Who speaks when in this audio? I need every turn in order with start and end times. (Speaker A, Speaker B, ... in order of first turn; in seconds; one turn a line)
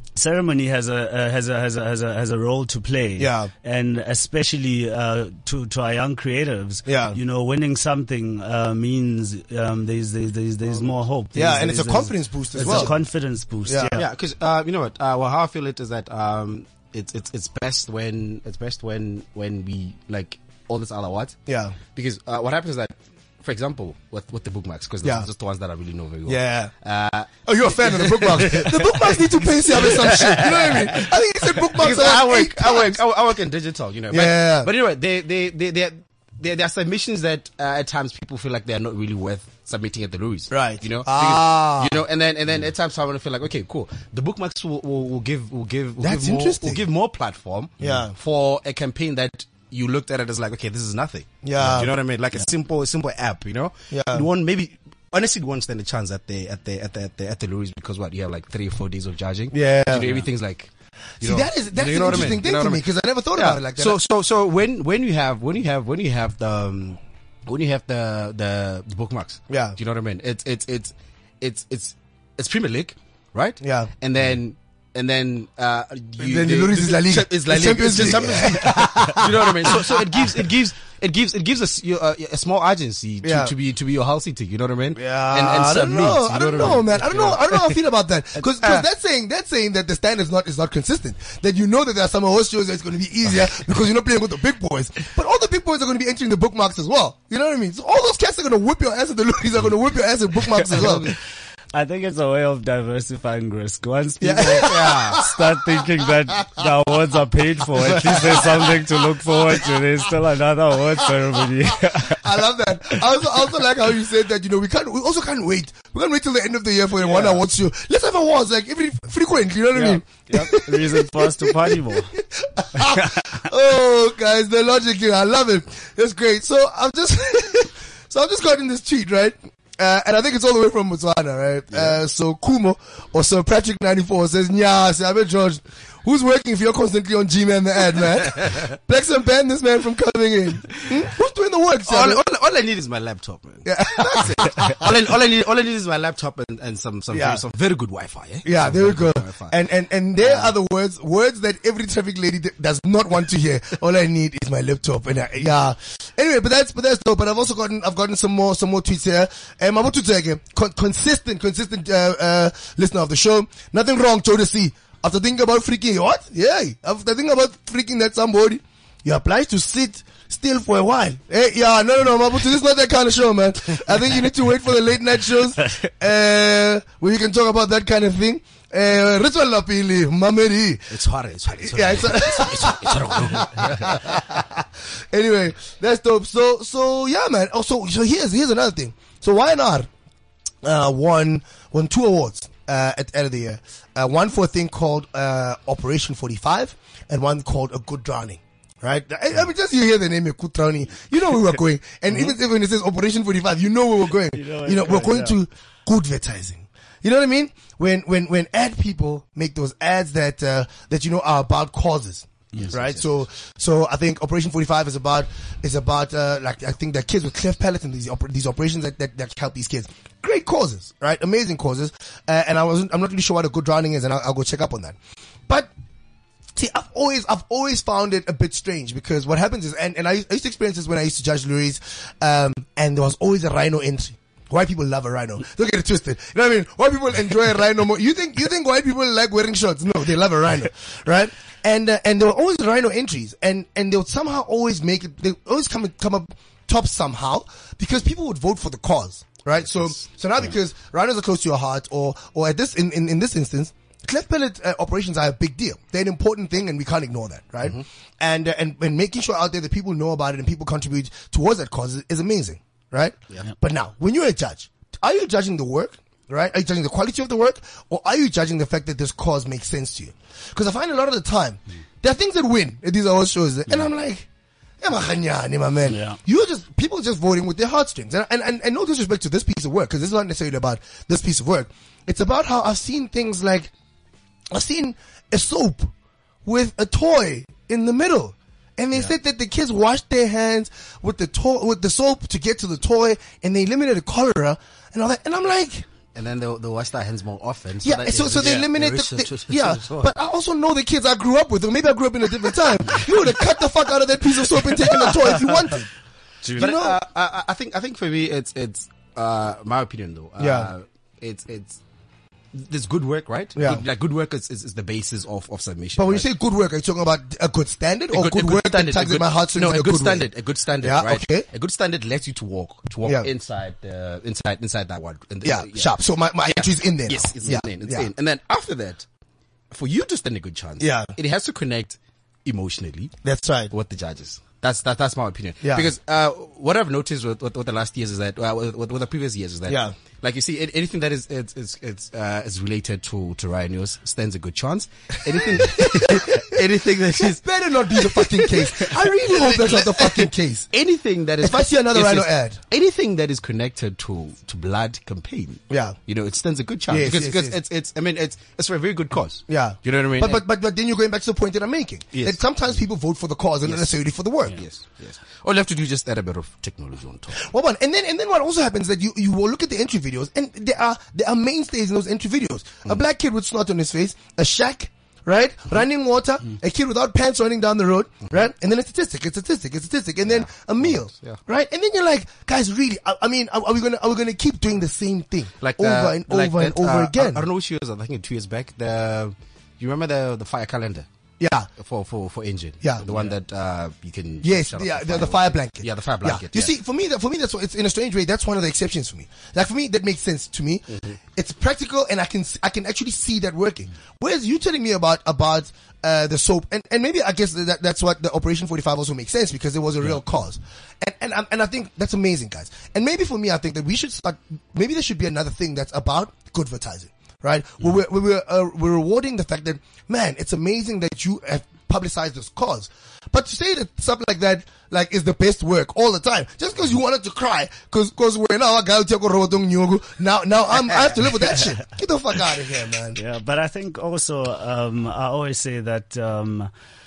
Speaker A: 0.1-14.1
Speaker B: 3.2-3.5
Speaker B: 6.8-7.2
Speaker B: 11.3-12.9
Speaker C: 12.6-12.9
Speaker B: 13.7-14.0
Speaker C: 14.0-21.4
Speaker B: 21.5-21.8
Speaker C: 21.9-87.8
Speaker B: 25.0-25.3
Speaker B: 26.2-26.7
Speaker B: 27.4-33.0
Speaker B: 34.1-34.7
Speaker B: 40.5-42.0
Speaker B: 46.0-46.8
Speaker B: 47.8-48.1
Speaker B: 51.4-51.9
Speaker B: 53.9-54.2
Speaker B: 59.5-60.2
Speaker B: 61.2-64.0
Speaker B: 69.5-69.8
Speaker B: 73.6-73.9
Speaker B: 76.2-80.4
Speaker B: 83.2-83.5
Speaker B: 84.9-101.1
Speaker C: 88.4-88.8
Speaker C: 100.8-101.1
Speaker A: 101.7-112.3
Speaker B: 104.2-105.3
Speaker C: 104.5-105.2
Speaker B: 108.0-108.6
Speaker B: 111.7-142.2
Speaker A: 119.7-122.1
Speaker A: 122.8-123.2
Speaker C: 131.7-132.0
Speaker C: 141.8-149.6
Speaker B: 143.6-144.9
Speaker B: 147.1-147.4
Speaker B: 148.4-181.0
Speaker C: 150.2-150.5
Speaker C: 180.9-184.2
Speaker B: 181.5-189.9
Speaker B: 190.6-224.9
Speaker A: 204.3-205.4
Speaker C: 212.6-213.2
Speaker B: 226.5-274.2
Speaker C: 249.6-250.5
Speaker B: 274.8-283.7
Speaker A: 275.9-276.2
Speaker B: 284.5-285.9
Speaker B: 286.4-295.9
Speaker C: 296.1-300.1
Speaker B: 297.8-305.9
Speaker A: 298.4-298.7
Speaker A: 306.4-306.8
Speaker C: 306.6-311.8
Speaker B: 306.6-307.0
Speaker B: 310.4-310.7
Speaker C: 312.5-316.3
Speaker B: 313.6-313.8
Speaker B: 316.0-320.3
Speaker C: 318.1-329.1
Speaker B: 320.8-321.4
Speaker B: 325.4-328.1
Speaker C: 329.7-333.2
Speaker B: 330.8-331.1
Speaker B: 333.2-333.7
Speaker C: 333.7-360.4
Speaker B: 335.6-335.9
Speaker B: 339.7-339.9
Speaker B: 345.5-346.6
Speaker B: 347.2-350.7
Speaker B: 351.4-352.6
Speaker B: 355.7-356.0
Speaker B: 356.9-357.6
Speaker B: 359.5-364.6
Speaker C: 362.1-362.6
Speaker C: 363.6-363.9
Speaker C: 364.5-367.4
Speaker B: 367.4-387.4
Speaker C: 380.2-381.4
Speaker C: 385.6-391.1
Speaker B: 391.4-391.7
Speaker C: 391.8-396.7
Speaker B: 392.8-393.1
Speaker B: 394.4-433.2
Speaker C: 400.9-401.2
Speaker A: 433.1-436.7